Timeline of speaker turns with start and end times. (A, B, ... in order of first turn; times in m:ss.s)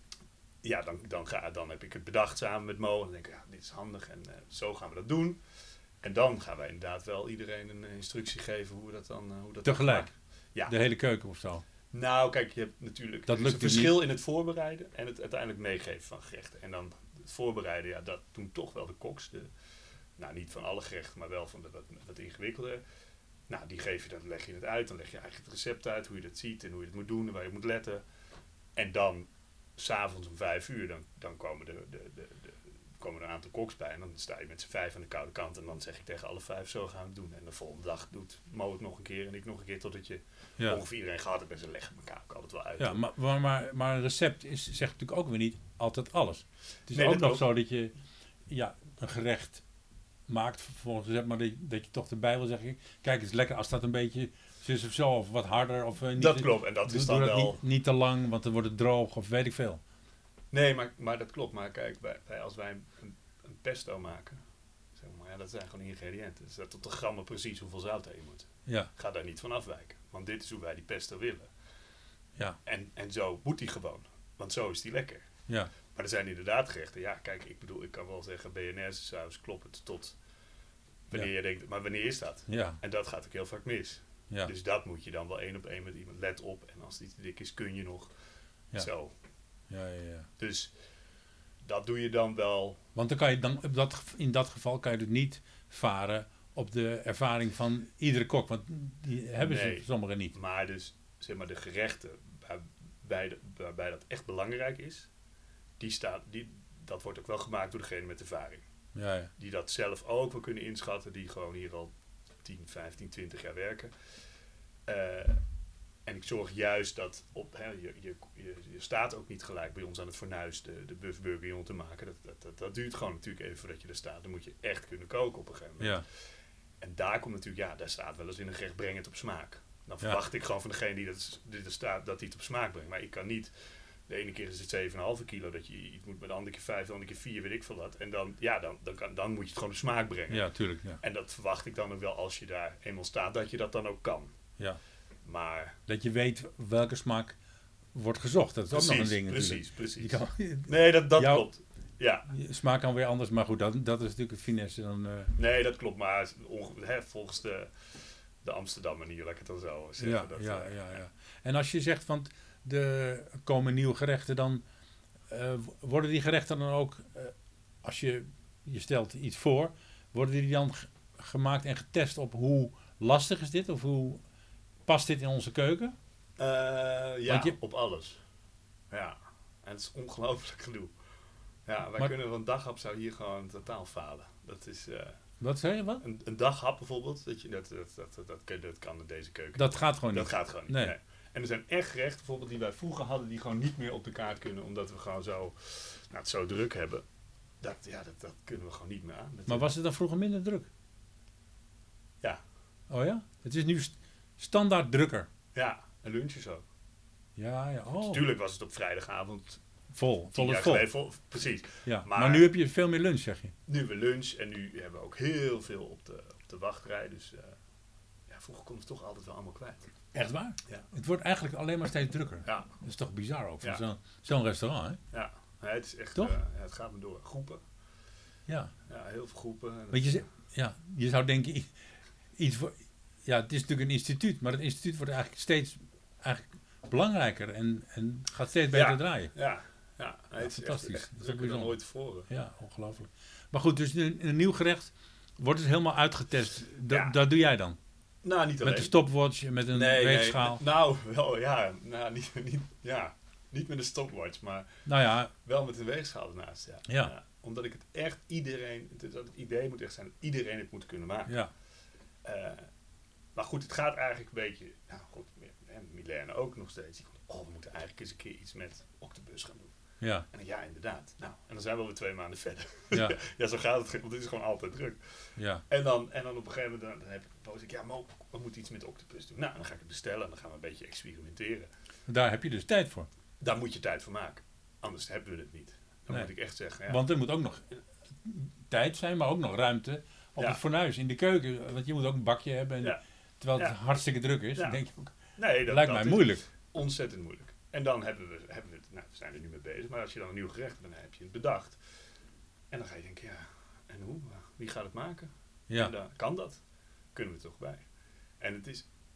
0:00.6-0:05.4 A
0:06.0-0:10.8 A
0:09.6-0:10.1 B
0:10.7-0:11.6 B
0:11.9-0:19.5 A
0:13.3-0:14.0 B
0:20.2-0:22.8 A
0:23.5-0:28.0 A
0:28.8-0:43.0 A
0:42.8-0:47.9 B
0:46.9-0:47.4 A
0:48.5-0:49.6 B
0:50.3-0:59.8 B
0:56.2-0:57.6 A
1:00.5-1:04.4 A
1:05.0-1:11.5 A
1:08.7-1:08.9 B
1:12.6-1:15.3 A
1:15.9-1:20.2 A
1:21.1-1:28.1 A
1:22.5-1:22.8 B
1:28.7-1:29.1 A
1:29.7-1:30.3 B
1:30.4-1:30.7 A
1:31.6-1:32.8 A
1:33.0-1:40.3 B
1:39.4-1:45.1 A
1:45.8-1:48.6 A
1:49.0-1:49.3 B
1:49.4-1:51.9 A
1:52.4-1:53.9 A
1:54.9-1:55.4 A
1:56.1-2:06.0 A
2:06.8-2:13.5 A
2:14.1-2:20.5 A
2:20.3-2:21.0 B
2:21.0-2:24.3 A
2:25.2-2:25.8 A
2:25.9-2:27.4 B
2:27.9-2:31.5 B
2:28.7-2:32.3 A
2:32.3-2:35.3 B
2:35.4-2:37.7 A
2:38.4-2:41.0 A
2:40.0-2:44.6 B
2:45.3-2:54.2 B
2:54.9-2:56.0 B
2:56.4-2:58.2 A
2:57.3-2:57.6 B
2:58.9-3:00.9 A
3:01.7-3:05.2 A
3:05.4-3:06.0 B
3:06.0-3:17.0 A
3:09.6-3:10.9 B
3:17.6-3:19.7 A
3:19.5-3:20.7 B
3:22.9-3:25.3 B
3:25.6-3:26.6 A
3:27.4-3:28.3 B
3:27.9-3:29.6 A
3:29.9-3:30.9 B
3:30.3-3:32.5 A
3:31.9-3:33.5 B
3:33.7-3:37.6 A
3:38.3-3:39.9 A
3:40.1-3:45.0 B
3:42.4-3:42.7 A
3:45.1-3:47.6 A
3:48.5-3:48.7 B
3:48.9-3:50.2 A
3:49.9-3:51.7 B
3:52.4-3:59.3 B
3:58.7-4:02.3 A
4:00.4-4:01.7 B
4:02.3-4:07.8 B
4:06.9-4:07.2 A
4:08.2-4:08.9 A
4:08.6-4:10.6 B
4:09.7-4:14.8 A
4:14.9-4:15.3 B
4:15.4-4:21.4 A
4:22.2-4:22.7 A
4:23.4-4:29.7 A
4:30.0-4:30.3 B
4:30.3-4:35.0 A
4:35.4-4:35.6 B
4:35.7-4:41.7 A
4:42.1-4:43.1 B
4:43.4-4:47.0 A
4:46.9-4:55.1 B
4:54.6-4:54.8 A
4:55.4-5:01.8 A
4:55.7-4:56.4 B
5:02.7-5:06.6 A
5:07.2-5:07.8 A
5:08.4-5:08.9 A